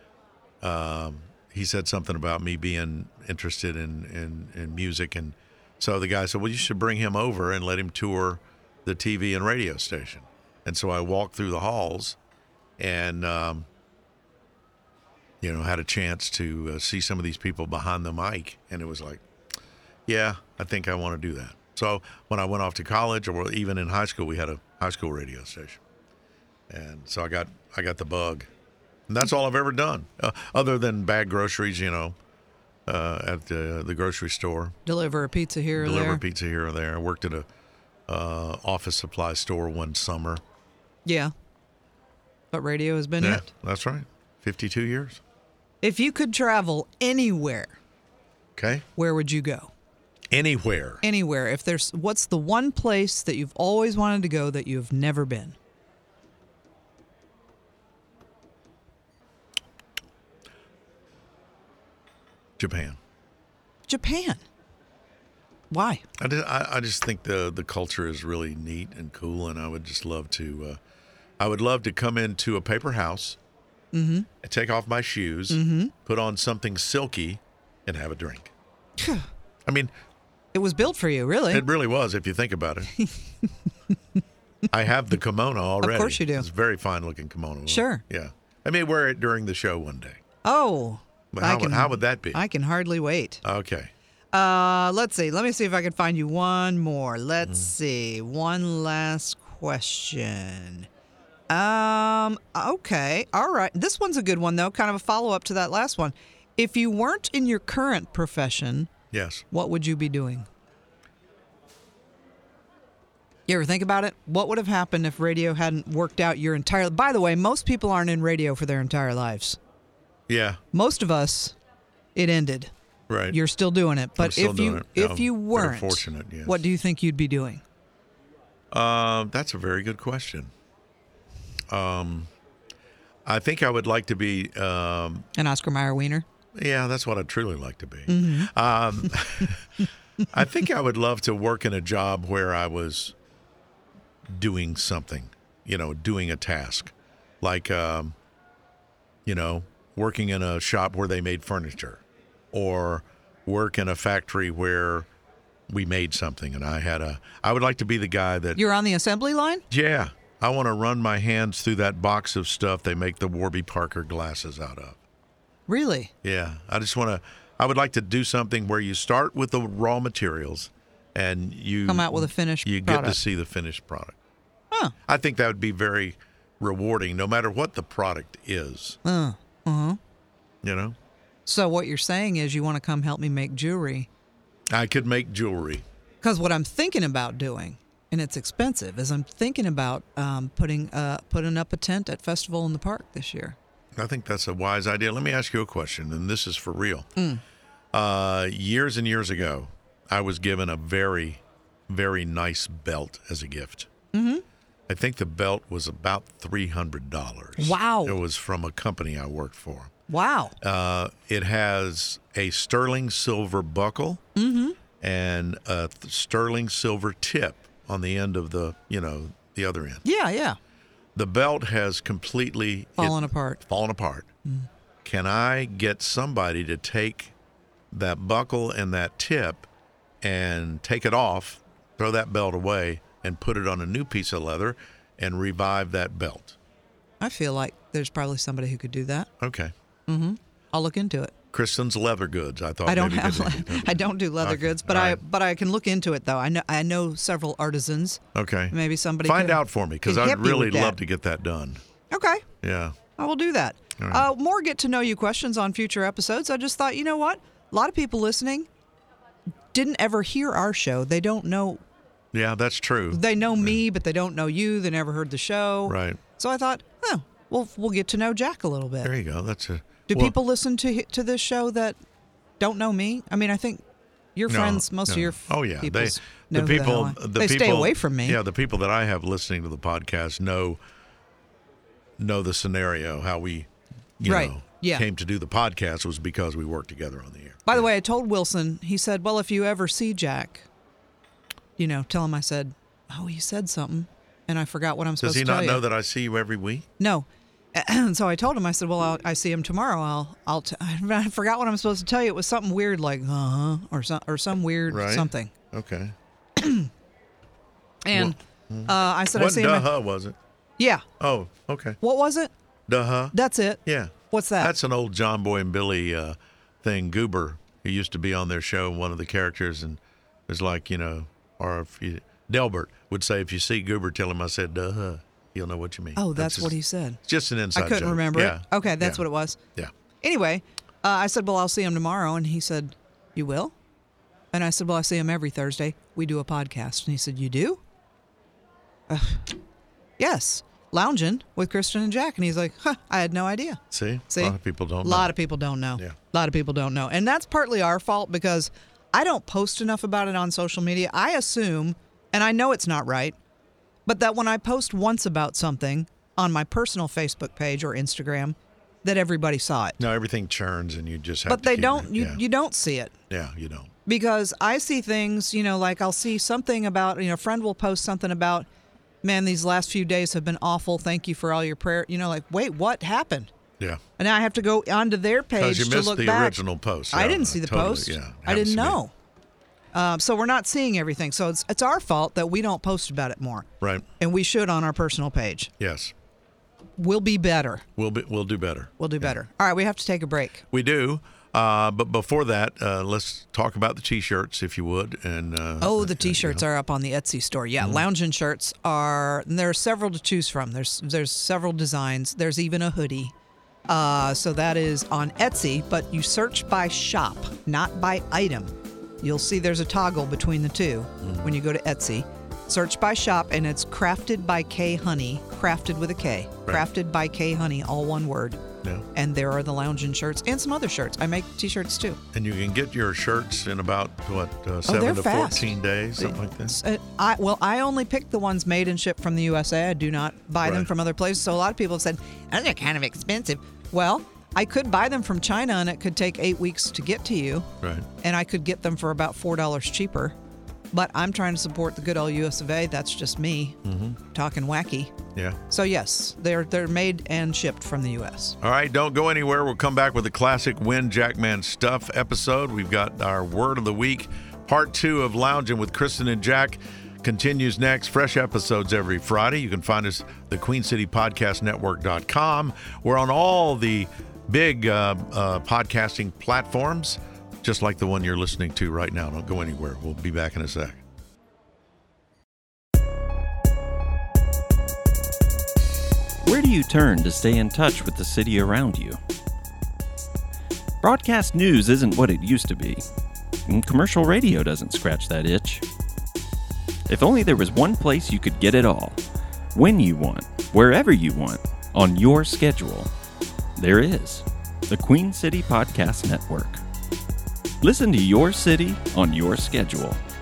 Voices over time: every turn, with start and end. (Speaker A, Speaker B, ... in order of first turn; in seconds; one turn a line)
Speaker A: 0.6-12.2
Speaker A: 12.8-13.7
Speaker A: 15.4-19.2
Speaker A: 20.1-25.8
Speaker A: 26.7-28.5
Speaker A: 29.1-32.2
Speaker A: 32.9-34.8
Speaker B: 34.9-36.2
Speaker A: 35.7-37.5
Speaker A: 38.1-40.4
Speaker B: 41.1-41.3
Speaker B: 42.5-43.5
Speaker A: 43.2-45.2
Speaker B: 45.8-47.8
Speaker A: 48.6-48.9
Speaker B: 49.0-49.7
Speaker A: 50.3-51.0
Speaker B: 51.0-55.5
Speaker A: 62.6-63.0
Speaker B: 63.9-64.4
Speaker B: 65.7-66.0
Speaker A: 66.2-70.8
Speaker A: 71.4-73.4
Speaker B: 73.9-74.3
Speaker A: 74.4-78.5
Speaker B: 75.5-75.9
Speaker B: 79.0-79.3
Speaker A: 79.7-79.9
Speaker B: 80.5-81.7
Speaker A: 81.5-82.9
Speaker A: 84.7-90.2
Speaker B: 85.8-86.5
Speaker B: 87.7-88.0
Speaker B: 90.5-93.4
Speaker A: 91.3-92.5
Speaker A: 93.4-93.9
Speaker B: 94.3-100.9
Speaker A: 97.4-97.7
Speaker B: 101.5-108.9
Speaker A: 109.1-109.5
Speaker B: 109.5-110.5
Speaker B: 113.5-119.6
Speaker A: 120.3-120.6
Speaker B: 120.7-121.5
Speaker B: 122.2-122.7
Speaker A: 123.1-123.4
Speaker B: 123.3-127.6
Speaker A: 124.2-126.7
Speaker A: 128.7-130.5
Speaker A: 131.7-132.3
Speaker A: 133.2-135.3
Speaker B: 135.4-136.2
Speaker A: 136.6-139.6
Speaker B: 138.1-138.5
Speaker A: 140.3-143.1
Speaker A: 144.3-148.2
Speaker A: 149.3-155.1
Speaker A: 155.7-158.6
Speaker B: 158.6-159.6
Speaker A: 159.7-165.0
Speaker B: 165.7-166.1
Speaker A: 166.2-174.2
Speaker B: 171.9-173.2
Speaker A: 175.1-179.0
Speaker B: 179.1-180.0
Speaker A: 180.6-181.0
Speaker B: 181.5-184.1
Speaker A: 184.7-185.8
Speaker B: 186.2-193.6
Speaker A: 193.9-197.1
Speaker B: 197.2-197.4
Speaker A: 197.9-203.9
Speaker B: 204.1-204.4
Speaker A: 204.9-209.9
Speaker B: 207.6-208.2
Speaker B: 210.1-210.6
Speaker A: 210.6-214.2
Speaker B: 214.4-214.8
Speaker A: 215.0-220.0
Speaker B: 220.0-220.6
Speaker A: 221.2-224.3
Speaker B: 223.0-223.6
Speaker A: 225.0-227.3
Speaker A: 227.9-229.7
Speaker A: 230.2-236.6
Speaker B: 237.2-239.3
Speaker A: 239.4-239.7
Speaker B: 240.1-241.3
Speaker A: 241.5-245.2
Speaker B: 242.9-251.0
Speaker A: 248.3-251.8
Speaker B: 252.1-252.4
Speaker A: 252.6-253.0
Speaker B: 253.2-258.7
Speaker A: 254.0-254.3
Speaker B: 259.7-261.8
Speaker A: 262.3-263.8
Speaker B: 263.1-269.1
Speaker A: 265.9-266.2
Speaker A: 269.0-270.4
Speaker B: 270.1-272.0
Speaker B: 272.6-273.8
Speaker B: 274.4-278.4
Speaker A: 274.5-280.8
Speaker A: 282.2-287.9
Speaker B: 284.2-285.1
Speaker B: 287.7-290.6
Speaker B: 291.8-295.8
Speaker A: 295.2-296.9
Speaker B: 297.0-305.5
Speaker A: 304.9-306.1
Speaker B: 306.6-306.9
Speaker B: 308.1-309.9
Speaker A: 308.1-310.4
Speaker B: 310.8-311.0
Speaker A: 311.2-312.0
Speaker B: 312.0-312.5
Speaker A: 312.9-329.9
Speaker B: 313.3-314.7
Speaker B: 326.2-327.2
Speaker B: 327.7-329.6
Speaker B: 330.2-333.7
Speaker B: 334.5-337.8
Speaker B: 339.1-339.5
Speaker B: 340.2-353.4
Speaker A: 343.9-346.2
Speaker B: 354.1-360.0
Speaker A: 360.0-362.4
Speaker B: 361.5-363.1
Speaker A: 363.3-363.9
Speaker B: 364.1-368.7
Speaker B: 369.2-373.5
Speaker B: 374.2-376.6
Speaker A: 375.6-379.0
Speaker B: 377.1-379.1
Speaker B: 379.9-383.7
Speaker A: 383.8-384.1
Speaker B: 384.2-385.7
Speaker A: 385.8-386.1
Speaker B: 387.0-387.8
Speaker A: 388.0-389.4
Speaker B: 389.0-390.6
Speaker A: 390.7-396.7
Speaker B: 395.8-403.3
Speaker A: 397.8-398.1
Speaker B: 403.9-418.6
Speaker A: 411.2-411.6
Speaker B: 419.1-422.2
Speaker A: 422.3-426.8
Speaker B: 424.9-437.7
Speaker A: 430.6-430.9
Speaker A: 437.8-438.1
Speaker B: 438.2-440.4
Speaker B: 440.9-443.8
Speaker A: 443.8-444.2
Speaker B: 444.3-445.1
Speaker A: 445.4-445.6
Speaker B: 445.7-448.6
Speaker A: 448.6-471.0
Speaker C: 476.4-479.2
Speaker C: 481.0-483.0
Speaker C: 483.7-485.8
Speaker C: 487.1-489.2
Speaker C: 489.7-493.1
Speaker C: 493.8-496.8
Speaker C: 497.8-500.2